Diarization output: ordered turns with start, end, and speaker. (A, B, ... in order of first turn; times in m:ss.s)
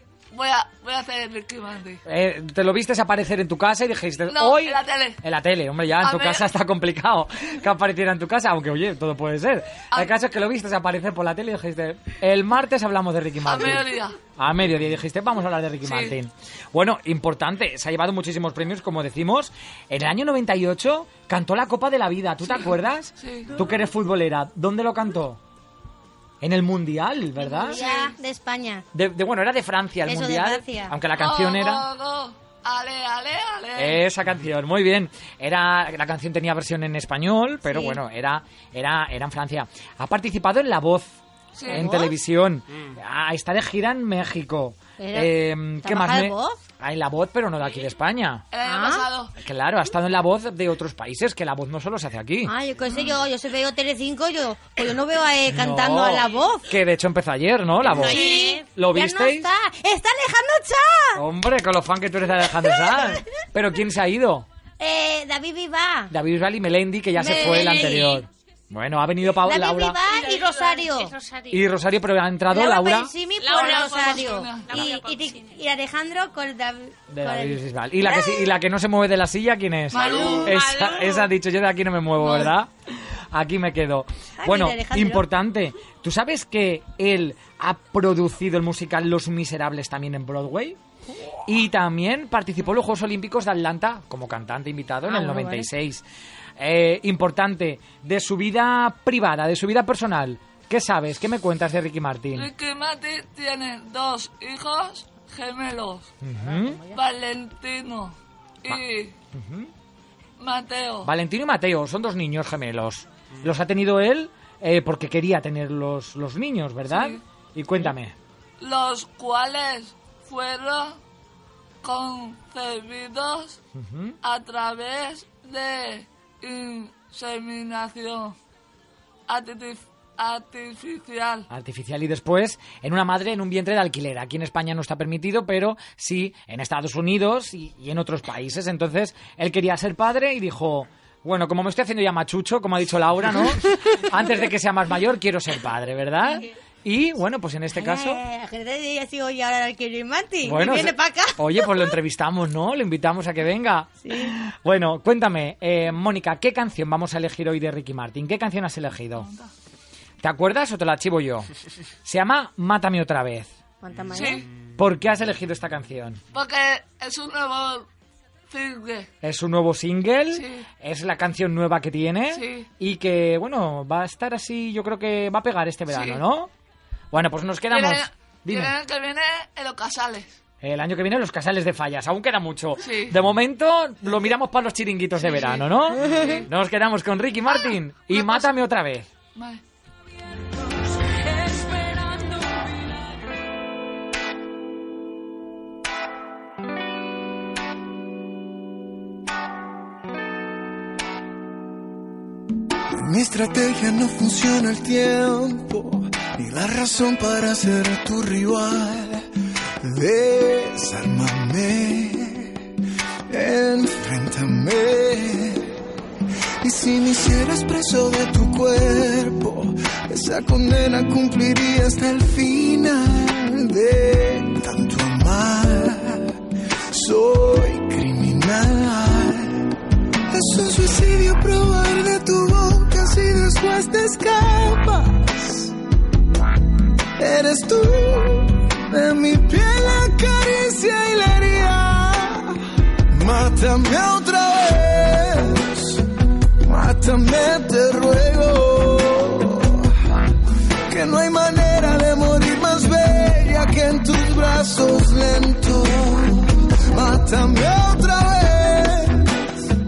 0:00.3-0:02.0 A
0:02.0-0:25.4 B
0:04.3-0:05.2 A
0:06.0-0:06.4 A
0:13.4-0:14.2 A
0:15.8-0:16.2 A
0:22.6-0:23.5 A
0:26.4-0:27.8 B
0:27.6-0:28.8 C
0:28.9-0:31.9 B
0:30.1-0:31.0 C
0:31.2-0:34.0 A
0:33.8-0:41.2 B
0:37.7-0:38.0 C
0:41.6-0:41.9 A
0:41.7-0:48.4 B
0:41.7-0:42.1 C
0:45.0-0:46.6 C
0:48.5-0:49.3 A
0:48.6-0:49.0 C
0:49.4-0:52.5 B
0:52.5-0:56.6 C
0:55.5-0:59.5 B
0:57.9-1:01.2 C
0:58.0-0:58.6 D
1:01.2-1:04.5 B
1:02.8-1:03.1 C
1:04.8-1:06.1 C
1:06.1-1:10.0 B
1:07.2-1:08.2 C
1:07.6-1:08.0 D
1:09.4-1:11.1 C
1:10.0-1:11.6 D
1:11.5-1:13.1 B
1:12.5-1:18.4 C
1:13.4-1:15.6 D
1:13.5-1:14.9 A
1:17.1-1:22.7 B
1:19.9-1:20.6 A
1:20.3-1:21.3 D
1:23.3-1:30.8 B
1:24.4-1:25.2 C
1:31.4-1:36.0 B
1:35.1-1:35.7 C
1:36.6-1:42.5 B
1:42.3-1:46.1 A
1:46.2-1:46.8 B
1:46.4-1:47.0 C
1:46.9-1:49.1 A
1:49.3-1:49.7 B
1:50.4-1:51.1 A
1:51.0-1:58.2 B
1:56.9-1:57.2 A
1:58.6-2:01.0 A
2:01.8-2:03.6 A
2:03.7-2:04.2 B
2:04.2-2:08.4 A
2:09.3-2:11.5 A
2:11.5-2:28.2 B
2:27.8-2:31.9 C
2:30.4-2:39.3 B
2:34.0-2:34.4 C
2:39.2-2:39.5 A
2:40.2-2:41.5 B
2:42.0-2:43.5 B
2:43.8-2:44.5 C
2:44.1-2:44.5 A
2:44.8-2:46.2 B
2:46.3-2:47.9 A
2:48.5-2:49.1 A
2:49.2-2:56.5 B
2:50.3-2:50.7 A
2:52.3-2:52.7 A
2:55.9-2:56.2 A
2:57.1-2:58.8 B
2:57.7-3:00.4 A
3:00.6-3:09.1 B
3:02.8-3:03.2 A
3:05.3-3:06.4 A
3:08.1-3:08.5 A
3:09.4-3:09.6 A
3:22.9-3:29.3 E
3:29.8-3:32.6 E
3:33.3-3:35.7 E
3:36.6-3:46.4 E
3:46.9-3:49.7 E
3:50.3-3:55.7 E
3:57.2-4:06.0 E
4:06.6-4:09.9 E
4:10.9-4:19.4 E